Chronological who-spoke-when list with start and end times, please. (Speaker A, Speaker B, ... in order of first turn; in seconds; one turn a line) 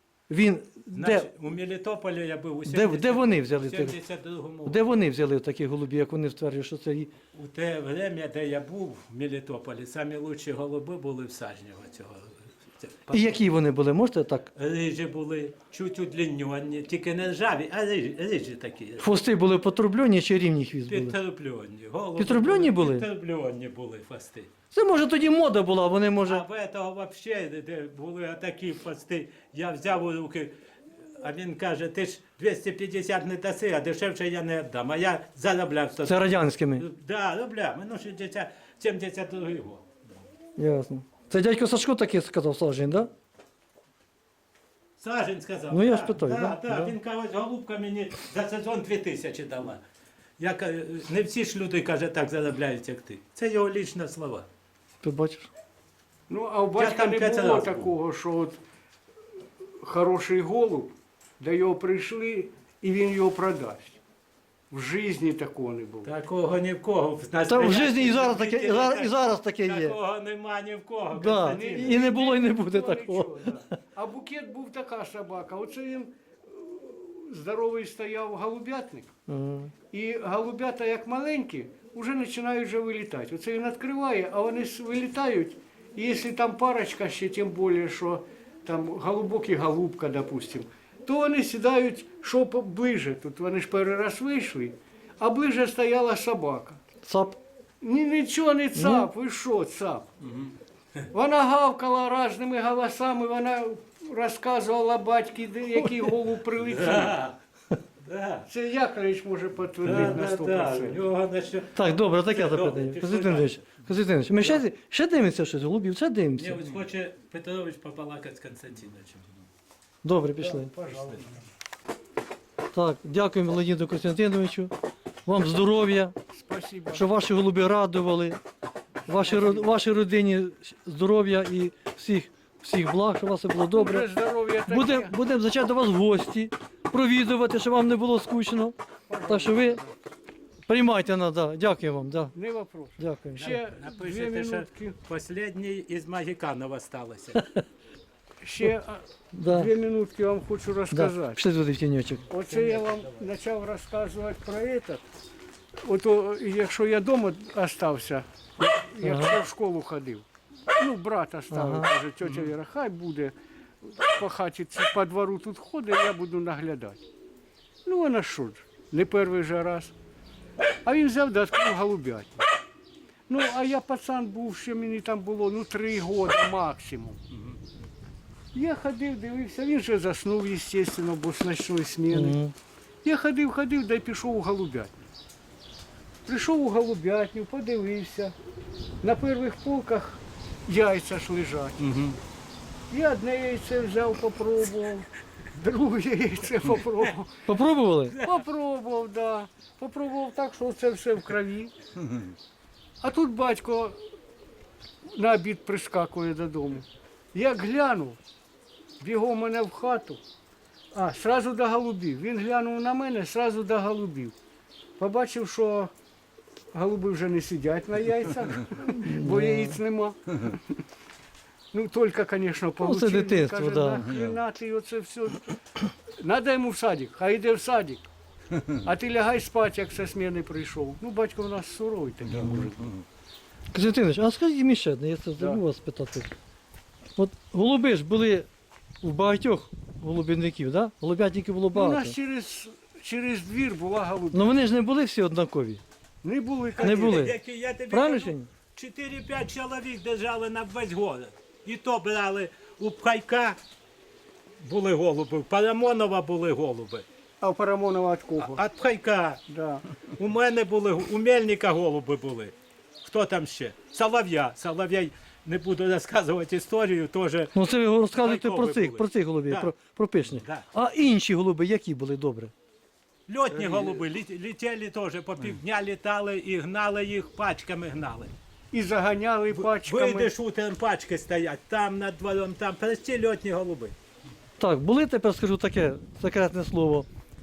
Speaker A: 0.3-1.3
Speaker B: 0.9-4.9
Speaker A: 2.7-4.0
Speaker A: 4.7-7.1
Speaker B: 7.3-13.4
Speaker A: 13.1-14.5
Speaker B: 14.6-19.1
Speaker A: 19.0-21.2
Speaker B: 20.9-24.5
Speaker A: 22.2-23.1
Speaker A: 24.7-26.4
Speaker B: 26.2-30.5
Speaker B: 31.2-39.8
Speaker A: 36.0-36.8
Speaker A: 40.6-43.1
Speaker B: 45.0-49.8
Speaker A: 45.7-46.9
Speaker B: 50.4-54.5
Speaker A: 55.0-55.5
Speaker C: 56.3-58.6
Speaker B: 56.8-57.9
Speaker C: 59.8-64.0
Speaker C: 64.7-66.1
Speaker B: 66.0-72.1
Speaker A: 67.5-70.0
Speaker A: 71.1-73.5
Speaker C: 71.5-79.1
Speaker A: 79.3-79.7
Speaker C: 79.9-96.8
Speaker A: 97.0-97.4
Speaker C: 97.8-100.1
Speaker A: 98.8-99.1
Speaker C: 101.1-107.2
Speaker B: 106.6-107.3
Speaker B: 108.0-108.5
Speaker C: 108.5-111.0
Speaker B: 109.8-111.8
Speaker A: 111.8-116.6
Speaker B: 112.3-113.7
Speaker B: 116.4-119.3
Speaker A: 120.0-120.7
Speaker C: 120.4-121.4
Speaker B: 120.9-121.2
Speaker A: 122.7-124.7
Speaker A: 125.3-126.1
Speaker C: 126.3-127.1
Speaker A: 126.9-128.4
Speaker A: 129.1-134.1
Speaker C: 129.1-129.7
Speaker C: 133.7-135.2
Speaker A: 134.7-139.8
Speaker C: 139.1-139.9
Speaker A: 140.7-142.3
Speaker C: 142.3-145.0
Speaker A: 143.0-143.6
Speaker B: 143.4-147.5
Speaker A: 147.3-147.6
Speaker C: 148.4-151.4
Speaker A: 149.3-149.7
Speaker A: 150.9-152.2
Speaker C: 152.3-155.0
Speaker B: 152.5-153.3
Speaker C: 155.8-167.0
Speaker A: 159.0-159.4
Speaker A: 161.5-161.9
Speaker B: 162.2-162.5
Speaker C: 167.8-169.9
Speaker C: 170.8-172.5
Speaker C: 173.3-177.2
Speaker C: 178.5-182.4
Speaker A: 182.1-182.5
Speaker C: 183.0-185.0
Speaker C: 186.3-188.3
Speaker C: 189.0-192.0
Speaker B: 191.8-192.2
Speaker C: 192.9-197.5
Speaker A: 197.5-198.2
Speaker C: 198.2-201.7
Speaker C: 203.0-204.0
Speaker C: 205.1-208.2
Speaker C: 209.0-210.2
Speaker C: 210.9-214.3
Speaker C: 215.0-215.9
Speaker C: 216.7-220.8
Speaker A: 218.9-219.8
Speaker C: 221.7-225.5
Speaker A: 222.8-224.1
Speaker C: 226.2-228.1
Speaker C: 228.8-232.9
Speaker B: 232.3-233.0
Speaker A: 232.4-232.7
Speaker A: 233.7-236.3
Speaker A: 237.2-238.5
Speaker A: 239.0-242.2
Speaker C: 241.7-244.6
Speaker A: 244.3-245.8
Speaker C: 246.2-247.2
Speaker B: 246.7-253.6
Speaker A: 246.8-247.4
Speaker A: 247.9-248.5
Speaker B: 254.6-257.1
Speaker C: 257.4-258.6
Speaker B: 258.4-259.4
Speaker C: 259.5-259.8
Speaker B: 260.2-262.5
Speaker B: 263.0-267.5
Speaker A: 267.5-272.5
Speaker B: 268.2-269.7
Speaker B: 270.3-270.7
Speaker B: 273.3-278.3
Speaker C: 273.6-274.0
Speaker C: 278.7-280.3
Speaker B: 279.5-283.9
Speaker A: 284.6-287.1